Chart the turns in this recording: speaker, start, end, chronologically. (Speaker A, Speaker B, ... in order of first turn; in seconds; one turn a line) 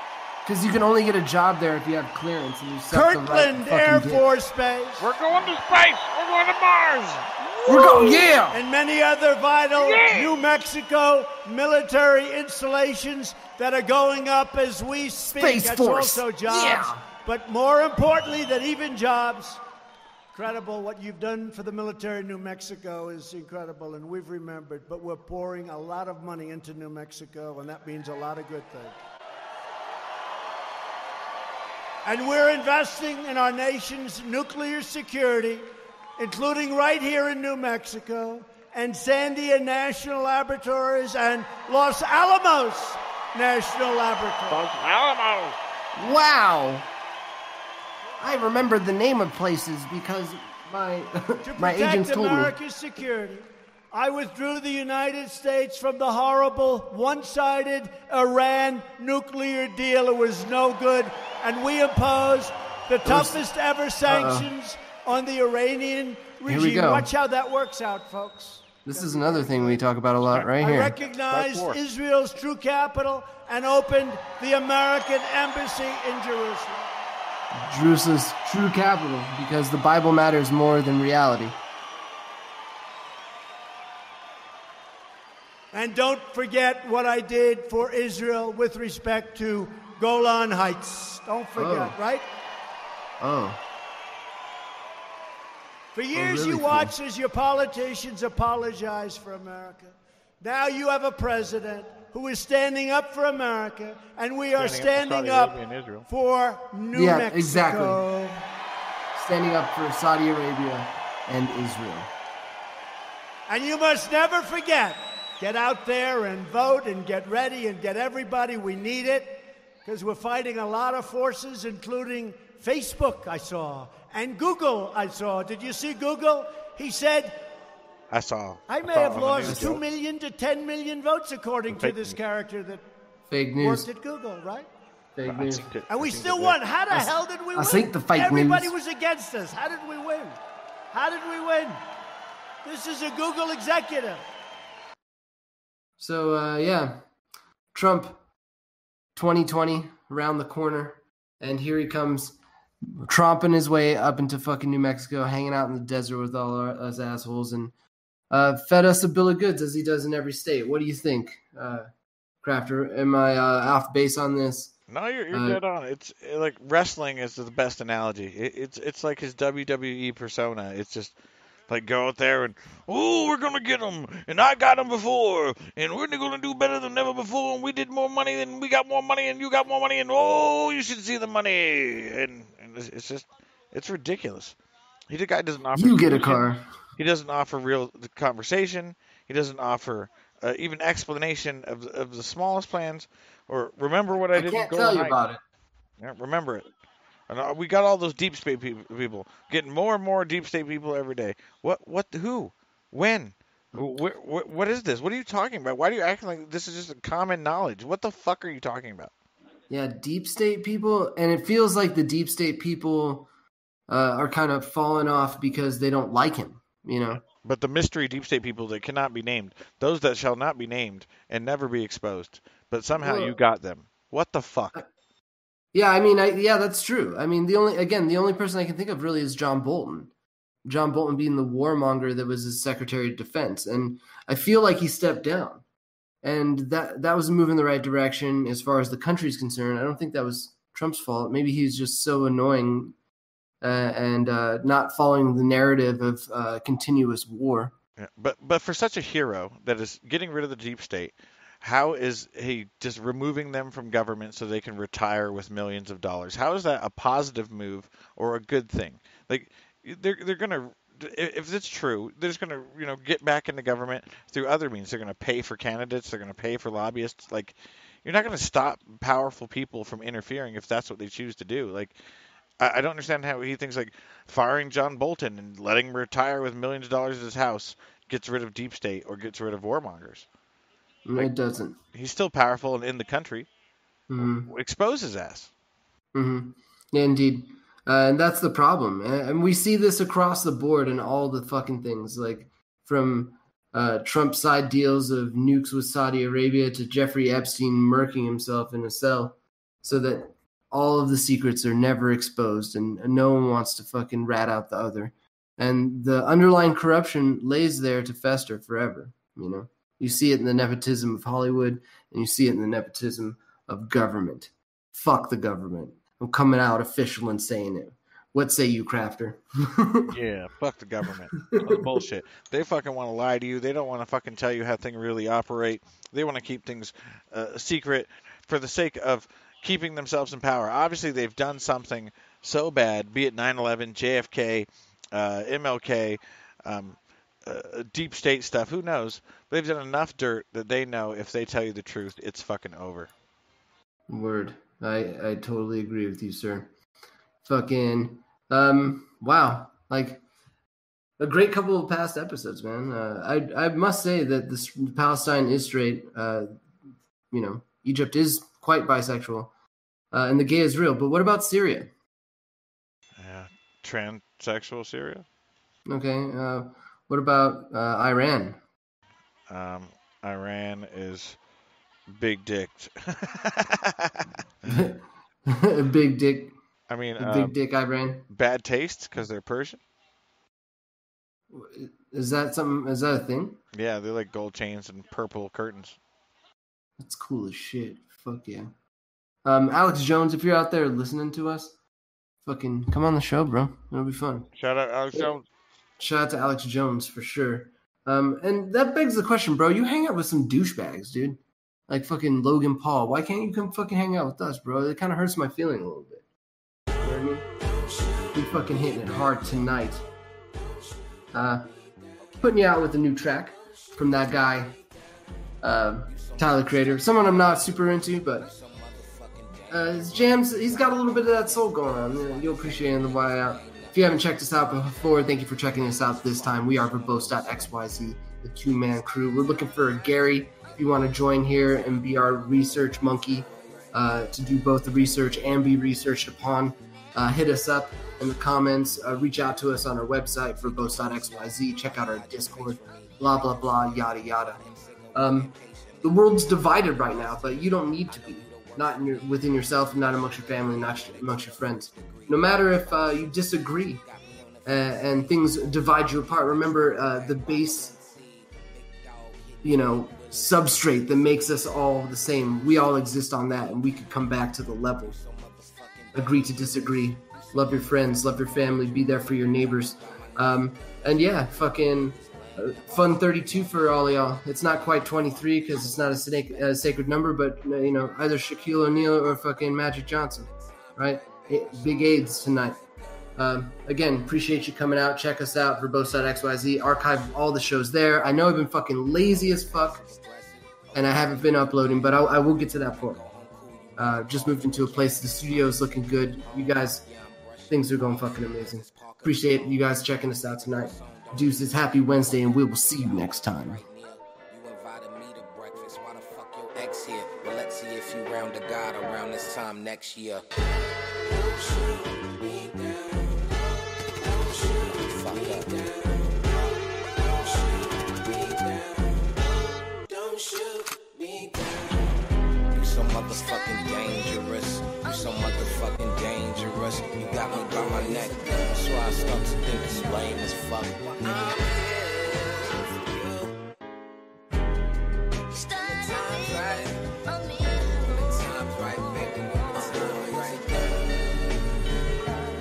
Speaker A: 0.5-4.3
Speaker B: 2.9-5.1
Speaker C: 5.0-8.2
Speaker A: 7.7-8.6
Speaker B: 8.5-19.6
Speaker C: 9.8-10.4
Speaker A: 15.3-17.0
Speaker B: 20.3-29.0
Speaker B: 32.0-44.6
Speaker C: 44.5-45.6
Speaker A: 46.0-46.9
Speaker A: 48.2-52.5
Speaker B: 51.5-69.8
Speaker A: 63.1-63.4
Speaker A: 64.0-64.5
Speaker A: 66.5-67.1
Speaker A: 68.9-71.0
Speaker B: 70.6-76.9
Speaker C: 71.3-71.8
Speaker A: 77.5-81.6
Speaker B: 85.7-92.3
Speaker A: 91.6-92.0
Speaker A: 93.2-93.6
Speaker B: 95.9-105.6
Speaker A: 96.1-96.9
Speaker C: 104.6-106.1
Speaker B: 106.1-108.4
Speaker A: 106.9-108.0
Speaker A: 109.2-112.1
Speaker B: 113.5-127.5
Speaker C: 128.1-129.8
Speaker B: 128.7-132.8
Speaker A: 129.4-129.8
Speaker C: 131.7-132.2
Speaker A: 133.3-133.9
Speaker B: 133.6-134.7
Speaker A: 135.2-135.8
Speaker C: 135.2-137.0
Speaker B: 135.9-140.4
Speaker A: 136.9-138.7
Speaker B: 140.9-141.8
Speaker B: 142.6-144.2
Speaker A: 146.0-147.0
Speaker A: 147.7-148.2
Speaker A: 149.2-152.4
Speaker A: 153.0-157.7
Speaker A: 158.3-161.9
Speaker A: 162.4-164.8
Speaker C: 164.9-171.2
Speaker A: 165.3-165.6
Speaker C: 171.7-184.6
Speaker C: 185.1-195.2
Speaker A: 185.8-186.7
Speaker A: 194.3-195.4
Speaker C: 196.0-196.7
Speaker C: 197.3-209.1
Speaker A: 209.7-213.3
Speaker A: 213.9-217.2
Speaker C: 217.1-224.8
Speaker A: 223.0-223.3
Speaker A: 225.7-230.1
Speaker A: 230.7-235.6
Speaker A: 236.2-242.9
Speaker A: 243.6-247.8
Speaker C: 248.0-272.0
Speaker C: 272.6-280.3
Speaker A: 281.1-281.8
Speaker C: 281.9-283.5
Speaker A: 284.1-284.5
Speaker C: 284.2-285.5
Speaker A: 286.1-320.1
Speaker C: 320.1-343.1
Speaker A: 344.1-346.7
Speaker A: 347.4-350.2
Speaker A: 351.2-356.6
Speaker A: 357.3-359.5
Speaker A: 360.1-361.9
Speaker C: 363.2-365.2
Speaker A: 365.9-368.6
Speaker C: 369.5-371.4
Speaker C: 372.1-374.9
Speaker A: 374.7-376.5
Speaker C: 376.9-377.5
Speaker A: 377.2-378.2
Speaker C: 378.3-379.8
Speaker A: 381.5-383.6
Speaker C: 383.7-386.0
Speaker A: 387.0-388.7
Speaker A: 389.4-391.8
Speaker A: 392.4-394.5
Speaker C: 394.6-395.5
Speaker A: 396.0-406.2
Speaker A: 407.0-407.5
Speaker A: 408.3-410.0
Speaker A: 411.3-411.7
Speaker D: 412.2-412.6
Speaker A: 412.4-414.7
Speaker D: 413.8-414.8
Speaker A: 415.6-418.5
Speaker D: 416.0-428.4
Speaker A: 419.7-444.6
Speaker D: 429.4-434.0
Speaker D: 440.4-461.8
Speaker A: 445.1-454.0
Speaker A: 454.6-457.9
Speaker A: 459.6-465.2
Speaker D: 464.0-477.1
Speaker A: 466.1-482.8
Speaker D: 478.1-483.4
Speaker A: 483.4-490.0
Speaker D: 486.8-487.7
Speaker D: 488.6-510.4
Speaker A: 490.9-493.3
Speaker A: 494.0-497.0
Speaker A: 497.7-503.8
Speaker D: 511.4-513.2
Speaker D: 514.3-516.1
Speaker D: 517.5-519.0
Speaker D: 520.1-521.7
Speaker D: 522.7-533.5
Speaker D: 536.1-537.0
Speaker D: 537.9-541.1